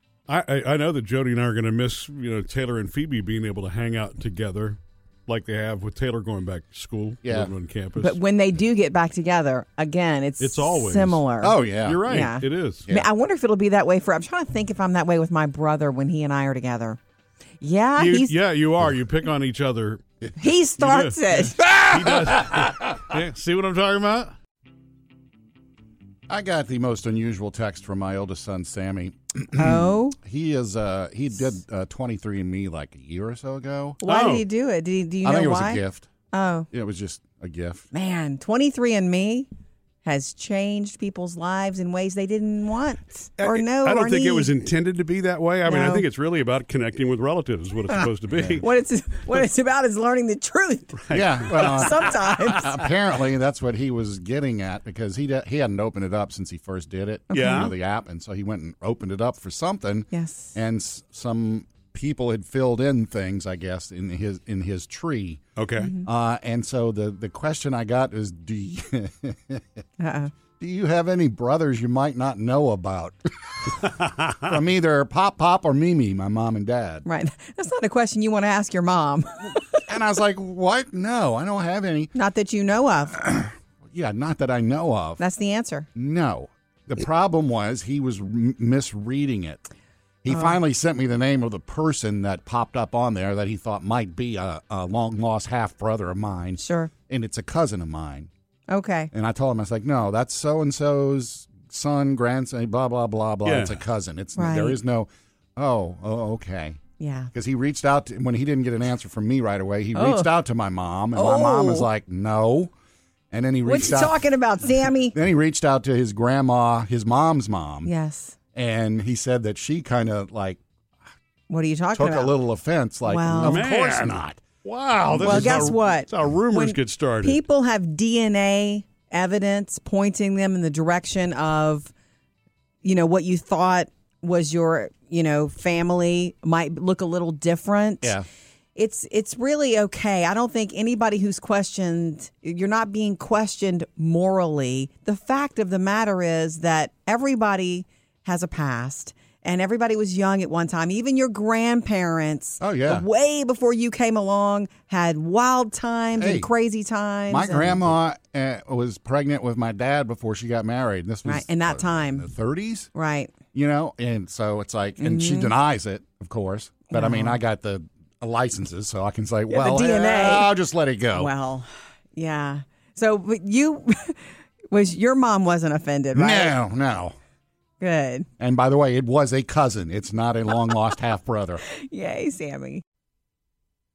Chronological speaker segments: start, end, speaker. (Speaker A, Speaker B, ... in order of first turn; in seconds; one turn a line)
Speaker A: 0.3-8.2
Speaker B: 7.2-7.5
Speaker C: 8.0-17.0
Speaker A: 10.4-11.2
Speaker B: 11.4-12.2
Speaker A: 11.8-12.8
Speaker C: 17.6-18.3
Speaker A: 18.0-20.0
Speaker C: 20.4-21.6
Speaker A: 20.8-21.2
Speaker B: 21.6-23.0
Speaker A: 21.9-24.3
Speaker B: 26.3-34.0
Speaker C: 29.6-30.2
Speaker C: 34.0-35.8
Speaker A: 34.0-34.4
Speaker B: 35.2-36.1
Speaker C: 36.3-36.7
Speaker B: 36.7-37.9
Speaker C: 37.9-39.5
Speaker C: 40.0-44.5
Speaker A: 43.4-48.6
Speaker C: 45.7-46.0
Speaker C: 48.6-52.9
Speaker B: 51.1-65.4
Speaker C: 57.3-57.7
Speaker A: 57.3-57.7
Speaker C: 60.1-60.5
Speaker A: 65.6-65.9
Speaker C: 65.8-66.1
Speaker B: 66.0-69.7
Speaker C: 70.0-70.3
Speaker B: 70.6-73.9
Speaker B: 74.4-77.0
Speaker C: 77.0-79.8
Speaker B: 79.9-82.1
Speaker C: 82.2-83.2
Speaker B: 83.2-85.2
Speaker C: 85.2-85.9
Speaker B: 86.0-89.6
Speaker B: 90.2-98.3
Speaker C: 90.3-90.6
Speaker C: 96.6-96.9
Speaker C: 98.7-99.1
Speaker B: 99.1-106.8
Speaker A: 103.5-103.8
Speaker C: 104.4-104.8
Speaker C: 107.0-107.3
Speaker B: 107.3-112.7
Speaker C: 110.0-110.3
Speaker C: 111.2-111.9
Speaker B: 113.3-114.2
Speaker C: 113.7-115.2
Speaker B: 115.1-117.9
Speaker C: 117.8-118.4
Speaker B: 118.5-120.6
Speaker C: 121.5-122.3
Speaker B: 122.0-124.4
Speaker C: 123.1-123.6
Speaker A: 123.4-127.4
Speaker B: 125.2-125.7
Speaker C: 125.2-131.9
Speaker C: 132.8-138.2
Speaker C: 138.8-157.8
Speaker B: 152.6-153.1
Speaker B: 156.2-156.5
Speaker B: 157.3-162.9
Speaker C: 161.3-162.3
Speaker C: 162.9-163.4
Speaker B: 163.5-171.3
Speaker C: 165.0-165.5
Speaker C: 166.9-167.4
Speaker C: 169.5-170.5
Speaker C: 171.1-176.6
Speaker B: 176.1-177.2
Speaker C: 177.8-178.3
Speaker B: 178.4-181.6
Speaker C: 181.8-182.8